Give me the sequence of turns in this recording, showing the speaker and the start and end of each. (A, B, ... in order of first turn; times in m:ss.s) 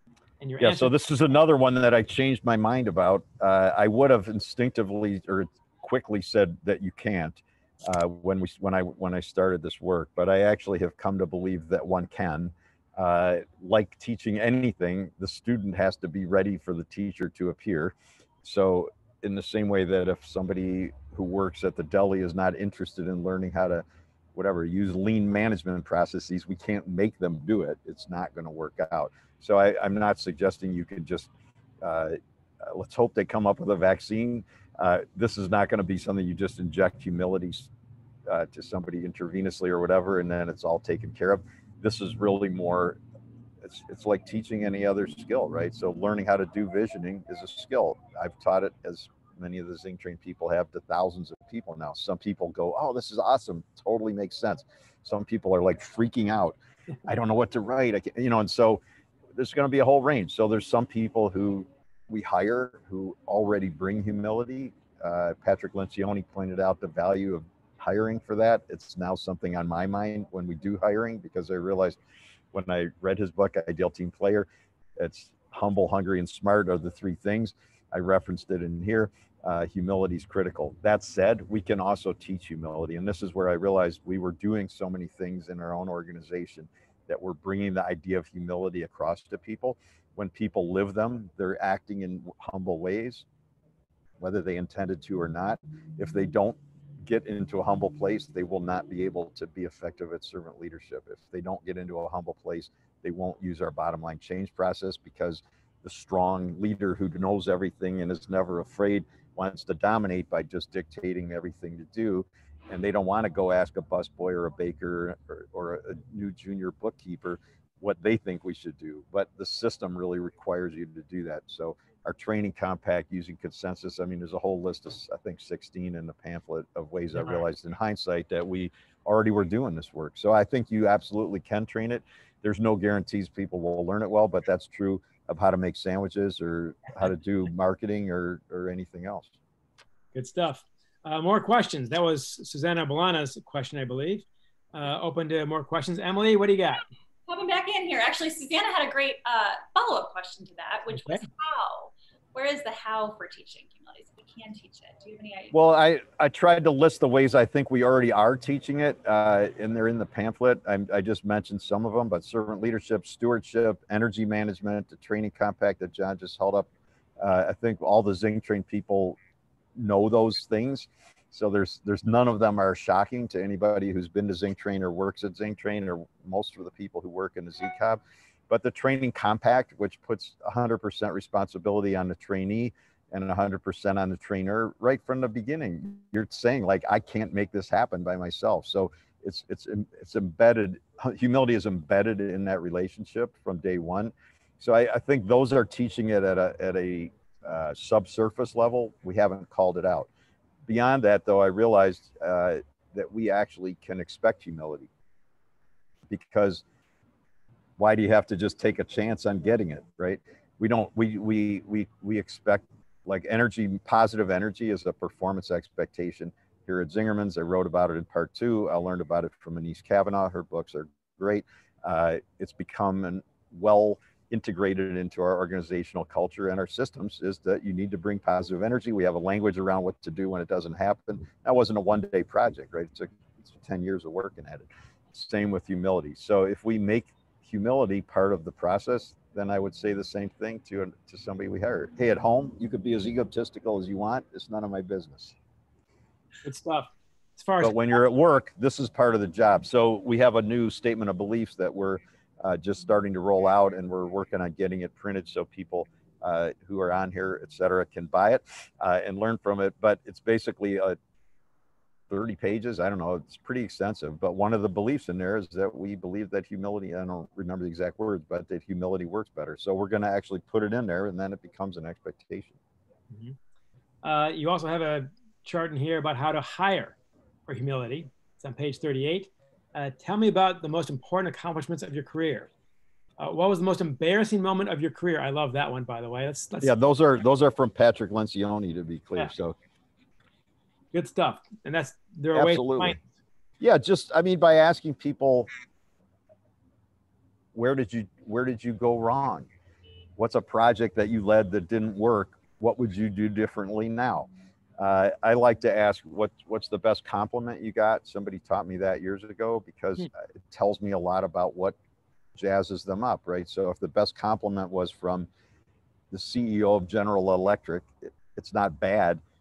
0:00.4-0:00.9 A
0:00.6-0:31.3 B
0:31.8-0:37.7 B
0:38.3-0:43.0 B
0:43.6-0:58.8 B
0:59.3-1:12.0 B
1:12.5-1:33.2 B
1:34.2-2:19.3 B
2:20.1-2:26.8 A
2:27.3-2:35.6 C
2:30.9-2:31.2 A
2:35.5-2:49.2 B
2:49.7-3:20.1 B
3:20.6-3:24.9 B
3:26.1-3:26.6 B
3:27.8-4:05.4 B
4:06.4-4:07.7 A
4:07.6-4:21.0 B
4:22.1-4:32.6 B
4:33.1-4:33.4 A
4:34.0-4:37.0 A
4:37.5-4:42.5 A
4:43.2-4:46.7 A
4:46.6-4:49.6 B
4:50.9-4:53.0 A
4:52.3-4:53.0 B
4:53.6-4:55.5 B
4:57.5-4:59.5 B
5:00.2-5:11.8 B
5:12.3-5:15.3 B
5:16.1-5:19.2 B